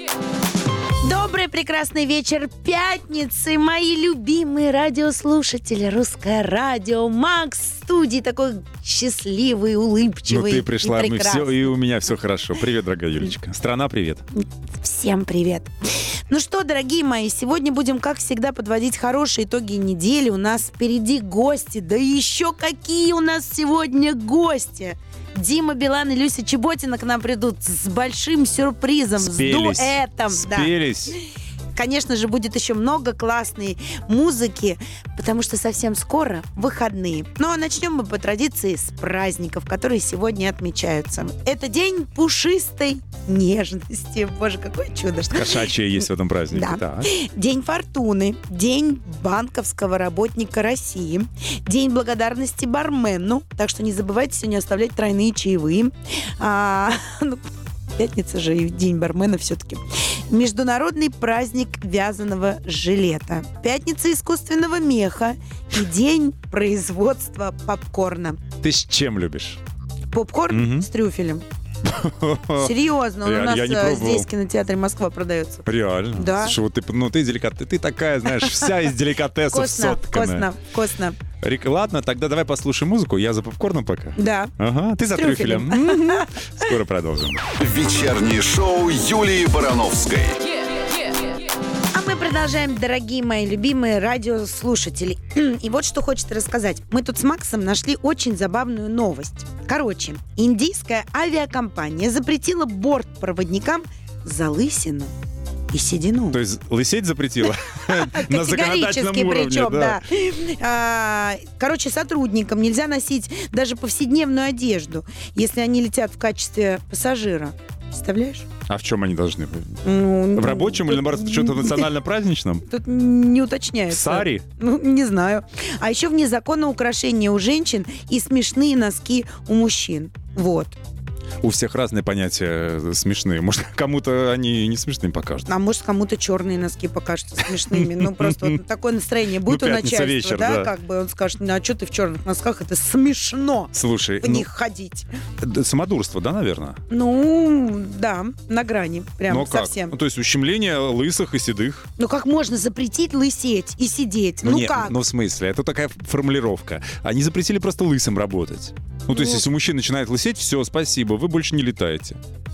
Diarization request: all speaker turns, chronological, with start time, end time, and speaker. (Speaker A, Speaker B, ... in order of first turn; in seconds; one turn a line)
Speaker A: 1.0-11.7
Speaker B: 10.3-14.2
Speaker A: 14.4-15.7
Speaker A: 16.3-30.7
Speaker B: 29.2-31.1
Speaker A: 31.8-45.7
Speaker B: 45.3-47.1
Speaker A: 46.5-68.4
Speaker B: 68.6-69.6
Speaker A: 70.1-71.4
Speaker B: 70.5-70.9
Speaker B: 71.8-74.3
Speaker A: 72.6-76.5
Speaker B: 75.7-80.5
Speaker A: 79.5-81.2
Speaker B: 81.4-87.5
Speaker A: 84.2-84.5
Speaker A: 85.1-86.3
Speaker C: 87.6-90.4
Speaker A: 91.9-105.1
Speaker A: 105.7-106.4
Speaker B: 106.3-110.0
Speaker A: 107.8-118.5
Speaker B: 118.7-119.8
Speaker A: 119.8-121.9
Speaker B: 120.3-122.6
Speaker A: 122.7-130.8
Speaker B: 123.9-124.4
Speaker B: 131.4-135.5
Speaker A: 135.5-145.1
Speaker B: 137.6-138.6
Speaker B: 139.4-140.7
Speaker B: 143.7-144.5
Speaker B: 145.4-146.8
Speaker A: 146.9-149.9
Speaker B: 149.3-151.9
Speaker A: 152.0-154.9
Speaker B: 154.4-162.2
Speaker A: 159.1-159.4